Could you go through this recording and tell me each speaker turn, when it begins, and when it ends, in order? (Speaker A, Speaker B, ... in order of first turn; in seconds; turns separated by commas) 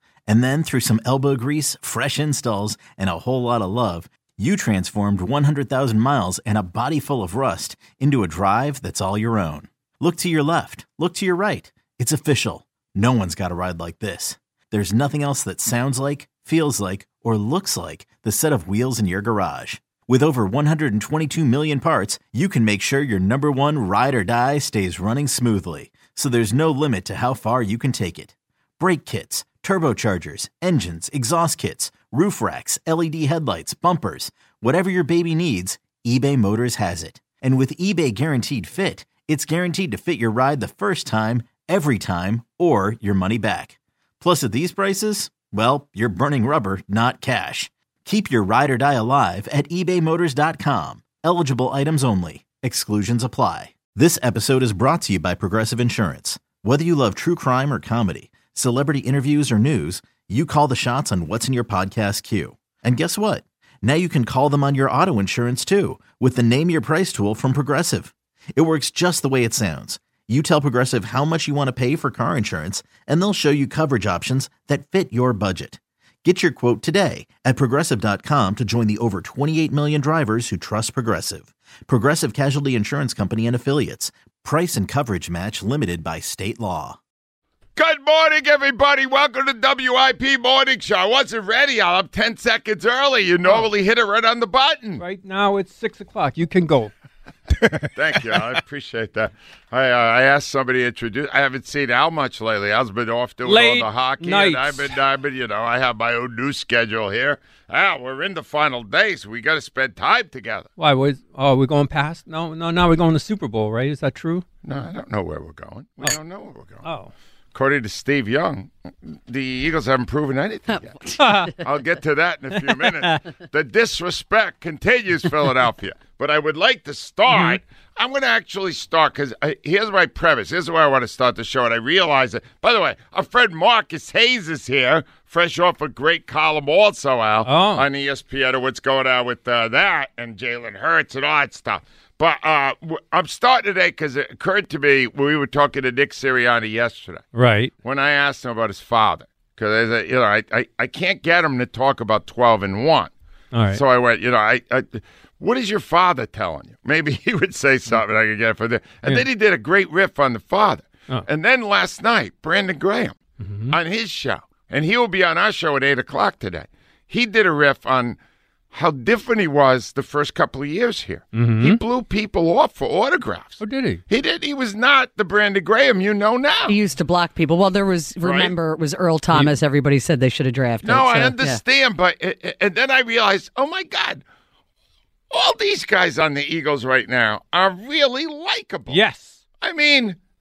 Speaker A: 0.3-87.0, Speaker B: 87.7-95.0, Speaker C: 95.0-96.9, Speaker B: 97.9-110.7, Speaker C: 103.4-104.9, Speaker C: 110.8-114.4, Speaker B: 114.6-116.8, Speaker C: 116.8-117.1, Speaker B: 117.5-147.2, Speaker D: 120.7-121.2, Speaker C: 121.2-121.5, Speaker C: 127.3-127.6, Speaker C: 137.4-137.8, Speaker C: 147.3-147.7, Speaker B: 147.8-153.1, Speaker C: 153.5-153.8, Speaker B: 153.7-163.2, Speaker C: 163.4-163.8, Speaker B: 163.7-168.2, Speaker B: 168.7-176.8, Speaker C: 171.3-171.8, Speaker C: 173.6-174.0, Speaker D: 176.7-181.6, Speaker B: 178.2-178.5, Speaker B: 180.8-184.2, Speaker B: 185.3-189.0, Speaker C: 188.9-189.4, Speaker B: 189.6-190.2